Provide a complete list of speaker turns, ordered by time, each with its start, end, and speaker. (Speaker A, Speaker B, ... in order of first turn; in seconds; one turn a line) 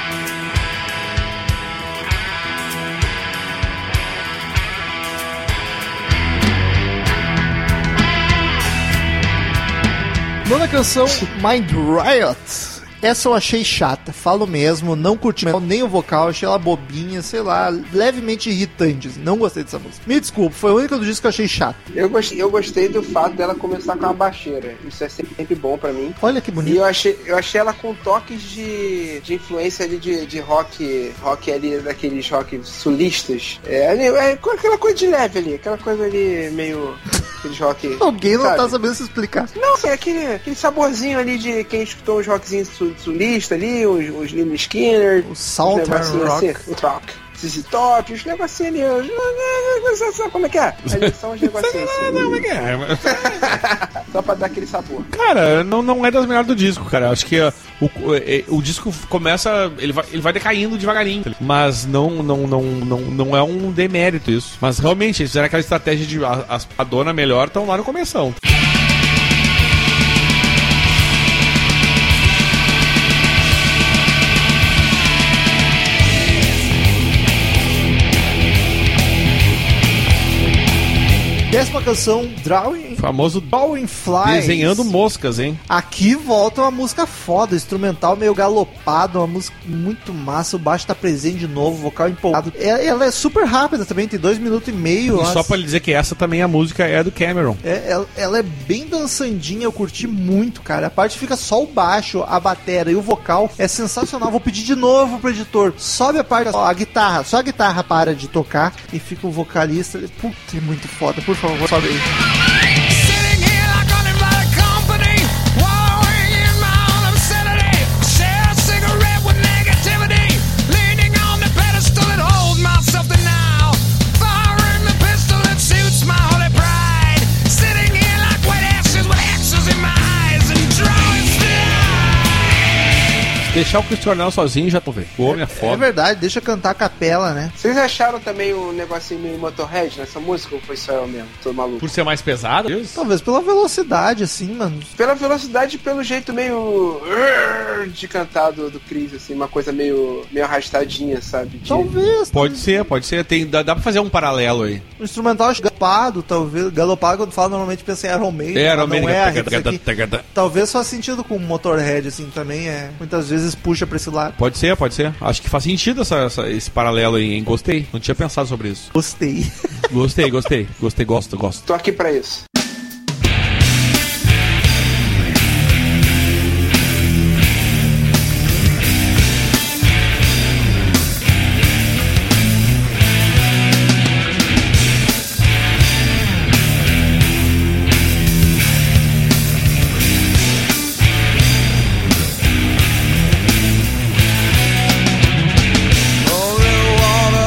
Speaker A: 10.4-21.8
Speaker B: 21.9-38.8
Speaker A: 26.2-26.8
Speaker A: 38.0-39.5
Speaker B: 39.5-52.4
Speaker A: 45.2-46.5
Speaker C: 50.9-53.6
Speaker B: 53.0-55.1
Speaker C: 55.1-68.4
Speaker A: 81.5-84.9
Speaker C: 83.0-83.5
Speaker C: 84.2-85.6
Speaker A: 85.7-95.5
Speaker C: 95.1-97.6
Speaker A: 97.6-112.0
Speaker D: 112.6-132.8
Speaker C: 133.4-135.9
Speaker A: 135.2-137.5
Speaker B: 137.6-141.9
Speaker C: 141.8-143.0
Speaker A: 142.9-144.9
Speaker B: 145.0-151.9
Speaker A: 151.7-152.9
Speaker C: 152.3-154.8
Speaker A: 155.0-159.8
Speaker C: 158.5-160.2
Speaker A: 160.3-164.4
Speaker C: 164.4-168.9
Speaker A: 168.9-169.5
Speaker C: 169.9-171.6
Speaker B: 171.7-172.4